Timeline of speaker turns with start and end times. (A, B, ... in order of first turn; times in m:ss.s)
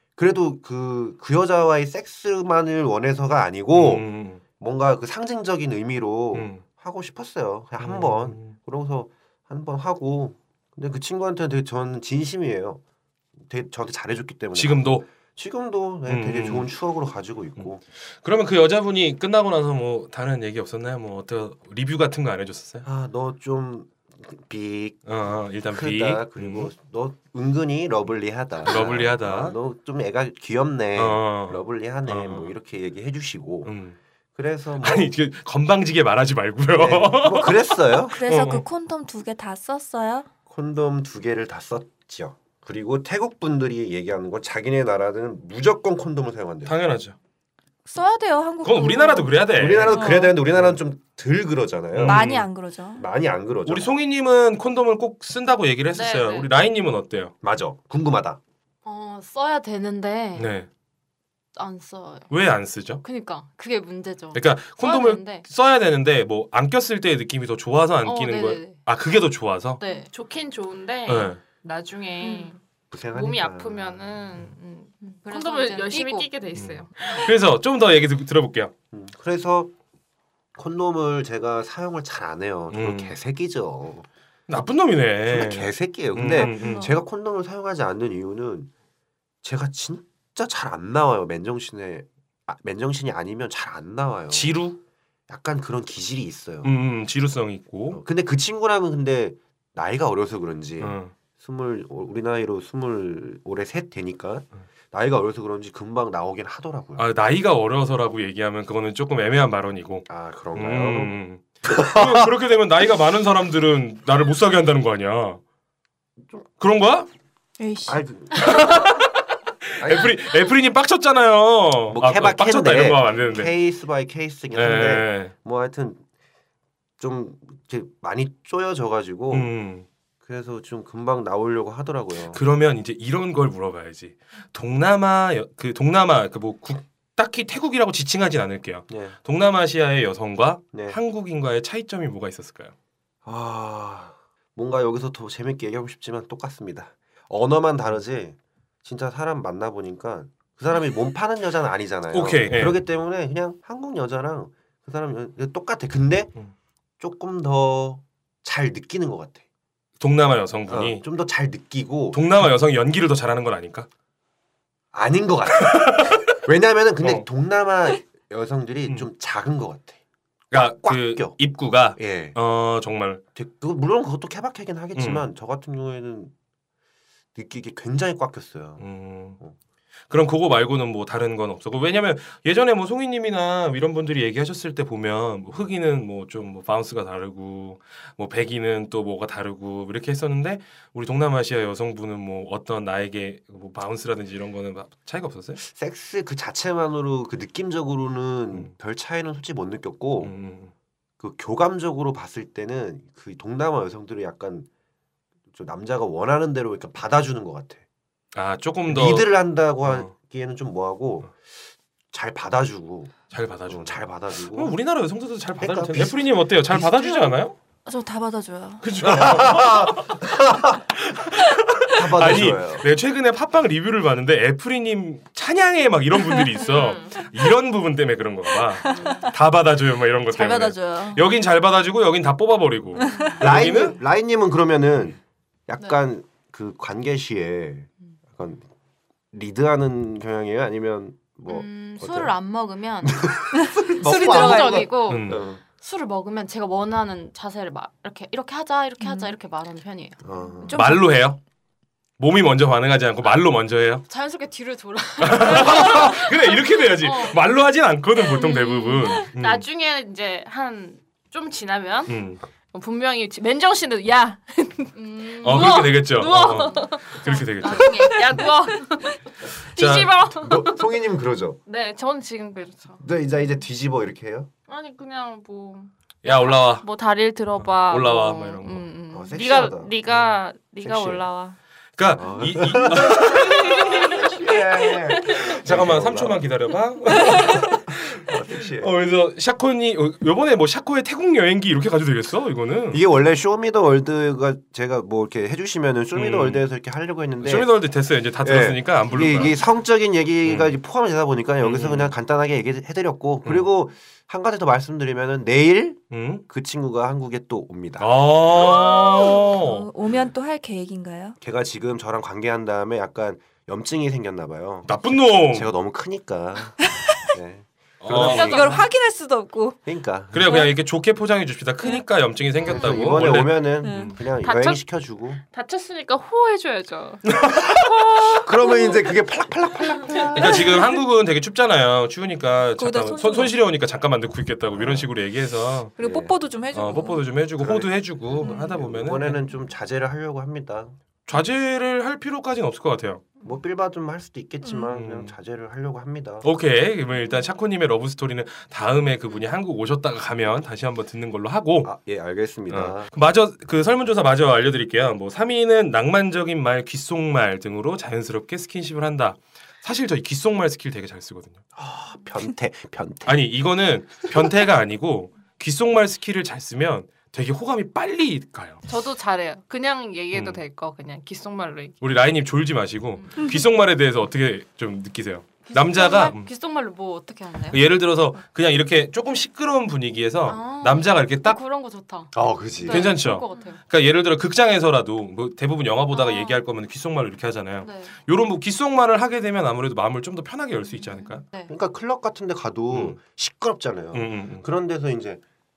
0:00.2-0:04.0 A
0:03.7-0:04.4 B
0:04.6-0:12.8 A
0:06.3-0:06.6 B
0:07.8-0:08.5 B
0:13.4-0:17.8 A
0:14.5-0:15.0 B
0:16.0-0:16.7 B
0:18.2-0:22.8 B
0:22.8-0:25.1 A
0:25.0-0:26.7 B
0:25.7-0:33.7 A
0:28.6-0:29.6 B
0:31.0-0:32.5 B
0:33.6-0:34.0 B
0:34.4-0:35.1 A
0:34.8-0:38.6 B
0:36.7-0:38.2 A
0:38.1-0:40.3 C
0:40.5-0:46.7 A
0:46.6-0:47.2 B
0:47.9-0:50.4 C
0:48.6-0:50.8 B
0:49.6-0:52.3 A
0:51.9-0:52.5 B
0:52.0-0:53.0 C
0:53.0-0:53.9 A
0:53.6-0:57.3 B
0:56.0-0:56.4 D
0:57.4-0:58.4 A
0:58.8-1:00.5 D
1:00.4-1:00.7 B
1:01.6-1:02.3 D
1:02.3-1:03.0 B
1:03.0-1:05.4 D
1:04.3-1:09.8 B
1:08.0-1:08.8 D
1:09.8-1:10.1 D
1:10.0-1:12.6 E
1:11.1-1:11.4 B
1:12.2-1:12.5 D
1:12.9-1:14.3 A
1:13.1-1:16.9 E
1:15.0-1:16.3 D
1:16.5-1:18.7 B
1:18.9-1:19.7 A
1:20.5-1:24.1 A
1:22.7-1:23.1 B
1:24.5-1:26.9 B
1:25.3-1:28.7 A
1:26.4-1:26.9 C
1:29.4-1:34.7 A
1:34.3-1:34.8 B
1:35.3-1:36.7 A
1:36.6-1:38.0 B
1:37.9-1:47.0 A
1:40.8-1:41.1 B
1:47.0-1:55.4 B
1:50.1-1:51.2 A
1:51.7-1:52.3 A
1:56.2-1:56.5 A
1:56.6-1:57.1 B
1:57.6-1:58.0 C
1:57.9-1:59.0 A
1:58.4-1:59.2 B
1:59.7-2:03.5 B
1:59.8-2:00.2 A
2:01.9-2:06.0 A
2:04.5-2:05.3 B
2:07.0-2:09.5 A
2:09.3-2:09.8 B
2:10.2-2:12.4 A
2:12.3-2:22.7 B
2:18.9-2:19.2 A
2:20.7-2:21.0 A
2:23.2-2:36.3 A
2:32.1-2:32.8 B
2:37.0-2:39.4 A
2:40.0-2:41.0 B
2:40.7-2:42.2 A
2:42.1-2:43.9 B
2:44.9-2:50.0 A
2:45.6-2:46.2 B
2:50.5-2:53.2 B
2:50.5-2:51.4 A
2:52.0-2:52.4 A
2:53.3-2:56.3 A
2:55.0-2:55.2 B
2:57.3-2:58.8 A
2:58.8-2:59.4 B
3:00.1-3:15.6 B
3:15.6-3:20.3 A
3:20.2-3:20.7 B
3:21.2-3:24.7 A
3:25.5-3:27.8 A
3:28.3-3:29.3 B
3:28.9-3:31.3 A
3:29.8-3:30.1 B
3:32.1-3:34.8 A
3:33.3-3:37.6 B
3:35.6-3:37.2 A
3:37.8-3:38.8 C
3:38.8-3:40.2 B
3:39.0-3:40.8 A
3:41.0-3:54.0 B
3:41.9-3:42.8 A
3:46.6-3:46.9 D
3:46.7-3:47.1 E
3:48.8-3:49.3 C
3:48.9-3:49.3 D
3:50.3-3:51.2 C
3:53.0-3:53.3 C
3:53.0-3:53.6 D
3:53.4-3:58.7 A
3:59.3-4:02.3 A
4:01.5-4:03.3 D
4:03.0-4:05.6 A
4:03.5-4:04.9 C
4:04.0-4:10.4 D
4:05.0-4:05.4 B
4:09.0-4:09.3 C
4:10.2-4:10.8 A
4:10.6-4:11.2 C
4:10.7-4:11.4 B
4:12.2-4:14.0 B
4:14.1-4:17.6 D
4:15.2-4:19.6 B
4:18.2-4:19.3 D
4:19.4-4:22.1 E
4:22.1-4:22.4 B
4:22.7-4:29.2 E
4:24.9-4:28.8 D
4:25.4-4:28.2 B
4:29.7-4:30.8 E
4:29.8-4:30.3 B
4:29.9-4:31.6 A
4:31.7-4:33.0 E
4:33.0-4:34.5 A
4:34.7-4:41.6 E
4:36.2-4:36.9 B
4:37.6-4:38.9 B
4:39.1-4:39.9 A
4:40.8-4:41.2 A
4:42.0-4:44.0 B
4:42.1-4:48.9 A
4:45.2-4:48.2 B
4:48.8-4:53.0 B
4:52.9-4:57.7 A
4:56.1-4:56.6 B
4:57.4-4:59.6 B
4:58.4-5:08.9 A
5:00.4-5:00.7 B
5:01.6-5:02.1 B
5:06.1-5:06.4 B
5:08.0-5:09.9 B
5:08.6-5:11.4 C
5:11.4-5:18.9 A
5:14.8-5:15.7 B
5:18.0-5:18.8 B
5:18.2-5:19.8 C
5:19.8-5:20.5 A
5:20.3-5:24.1 B
5:22.7-5:25.4 A
5:23.8-5:24.1 C
5:24.4-5:24.8 E
5:25.5-5:27.2 E
5:27.3-5:28.4 B
5:28.3-5:30.9 A
5:30.3-5:35.9 B
5:32.8-5:33.5 C
5:34.7-5:35.1 A
5:36.0-5:37.2 C
5:36.0-5:36.3 A
5:36.7-5:39.4 B
5:37.6-5:41.0 A
5:41.3-5:43.3 B
5:43.4-5:46.4 A
5:44.9-5:45.3 B
5:46.4-5:51.9 B
5:51.8-5:53.1 A
5:52.7-6:01.6 B
6:01.7-6:03.5 A
6:03.2-6:08.8 B
6:08.8-6:12.0 E
6:10.3-6:10.6 B
6:12.0-6:16.5 B
6:13.2-6:13.6 D
6:15.6-6:17.8 D
6:17.7-6:21.6 B
6:20.4-6:23.8 D
6:22.3-6:23.2 A
6:22.9-6:31.4 B
6:26.1-6:26.6 D
6:27.8-6:28.1 D
6:30.9-6:31.7 D
6:31.7-6:35.4 A
6:32.9-6:33.2 B
6:34.1-6:34.6 B